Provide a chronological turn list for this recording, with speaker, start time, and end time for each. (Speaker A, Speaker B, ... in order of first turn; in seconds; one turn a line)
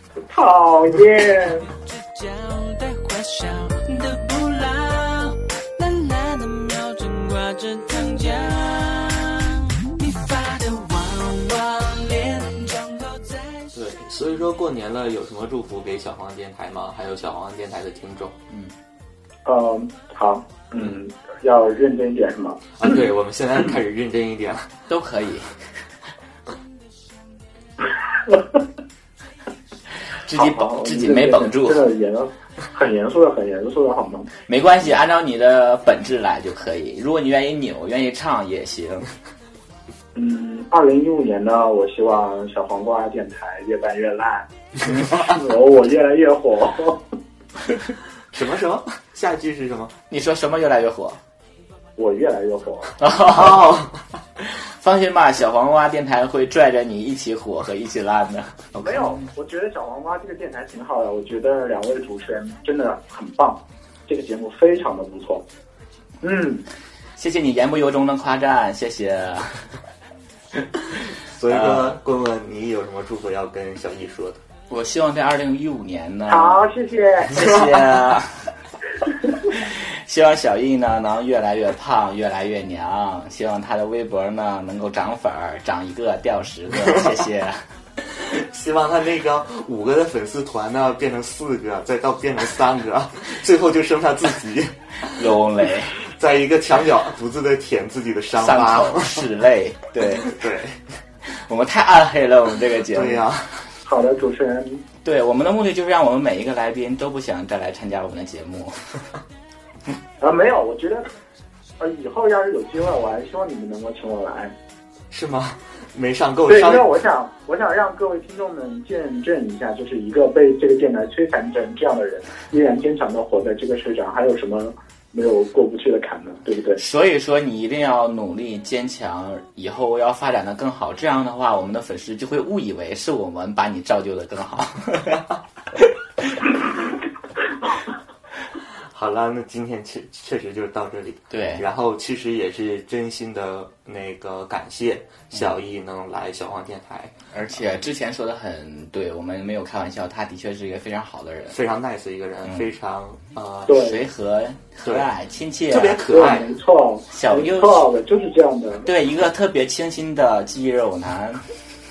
Speaker A: 0.3-1.7
Speaker B: 1.8-13.7
Speaker C: 13.7-18.4
Speaker A: 19.5-22.6
Speaker C: 22.8-24.7
Speaker D: 24.9-25.6
Speaker D: 30.2-31.9
Speaker A: 30.4-34.3
Speaker D: 34.5-39.1
Speaker A: 40.1-44.5
Speaker D: 44.9-45.3
Speaker A: 45.1-47.0
Speaker C: 48.3-49.9
Speaker D: 50.1-51.2
Speaker A: 52.0-52.9
Speaker D: 53.0-53.9
Speaker C: 53.3-54.0
Speaker D: 54.8-59.2
Speaker A: 58.8-65.4
Speaker A: 66.2-66.7
Speaker D: 67.2-69.7
Speaker C: 71.3-74.4
Speaker D: 71.5-72.0
Speaker D: 74.7-76.6
Speaker A: 76.3-77.3
Speaker D: 77.3-78.5
Speaker D: 79.5-87.7
Speaker C: 88.1-95.2
Speaker D: 95.1-95.9
Speaker C: 96.0-99.3
Speaker D: 98.4-100.4
Speaker C: 100.2-100.8
Speaker D: 101.3-103.2
Speaker C: 102.9-103.6
Speaker A: 103.8-104.8
Speaker D: 105.0-108.8
Speaker A: 110.2-111.1
Speaker A: 111.8-114.5
Speaker C: 115.1-116.9
Speaker A: 116.5-126.8
Speaker D: 126.8-135.3
Speaker D: 135.8-136.5
Speaker C: 138.9-147.2
Speaker D: 141.3-141.7
Speaker D: 147.3-151.6
Speaker C: 151.5-153.8
Speaker D: 152.4-152.7
Speaker A: 153.7-154.0
Speaker D: 153.7-156.0
Speaker C: 155.7-156.5
Speaker A: 156.1-158.9
Speaker D: 157.1-157.9
Speaker D: 158.8-161.4